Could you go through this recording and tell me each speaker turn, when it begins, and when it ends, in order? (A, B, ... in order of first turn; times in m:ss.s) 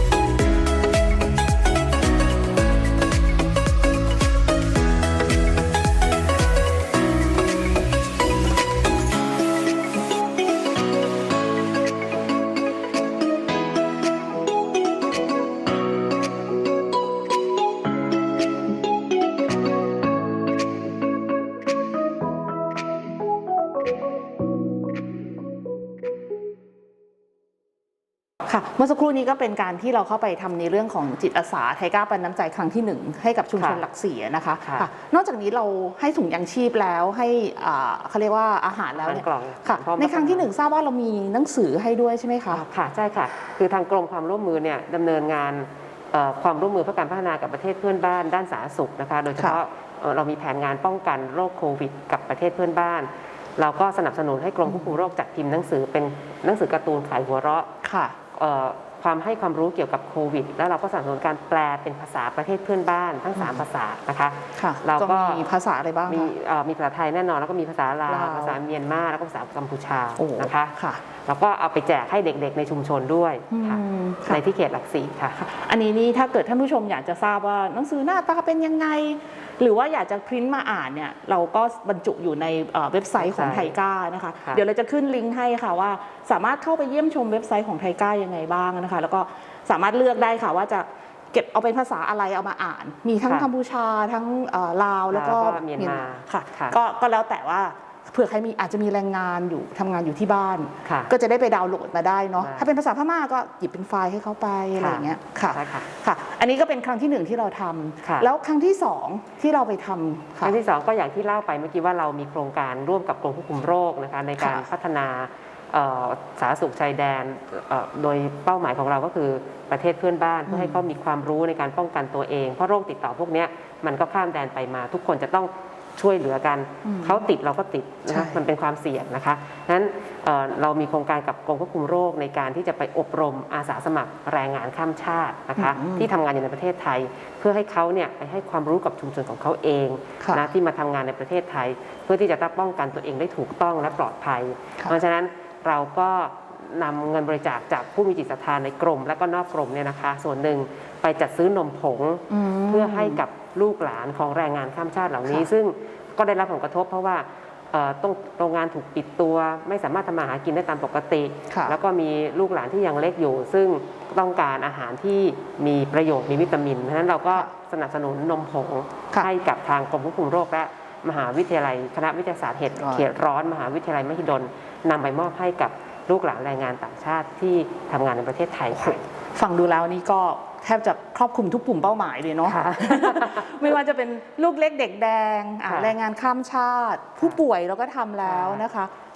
0:28.5-0:42.6 A
0:33.6-0:33.8 B
0:34.6-0:34.9 B
0:39.0-0:40.5 B
0:42.5-0:57.7 B
0:54.6-0:54.9 A
0:57.8-0:58.2 A
0:58.3-1:05.4 B
1:03.4-1:03.6 A
1:04.6-1:06.3 A
1:06.1-1:15.4 B
1:08.1-1:08.6 A
1:10.2-1:11.0 A
1:13.5-1:14.4 A
1:15.4-1:50.6 A
1:23.2-1:23.8 B
1:35.1-1:36.8 B
1:40.8-1:41.1 B
1:42.4-1:42.7 B
1:44.8-1:45.9 B
1:48.0-1:48.3 B
1:50.4-2:59.0 B
1:54.4-1:54.7 A
2:00.5-2:00.8 A
2:06.8-2:07.3 A
2:08.1-2:08.4 A
2:15.6-2:16.1 A
2:32.3-2:33.2 A
2:41.5-2:41.8 A
2:52.8-2:53.1 A
2:58.7-3:08.9 A
3:02.4-3:03.6 B
3:05.7-3:06.0 B
3:08.2-3:08.6 B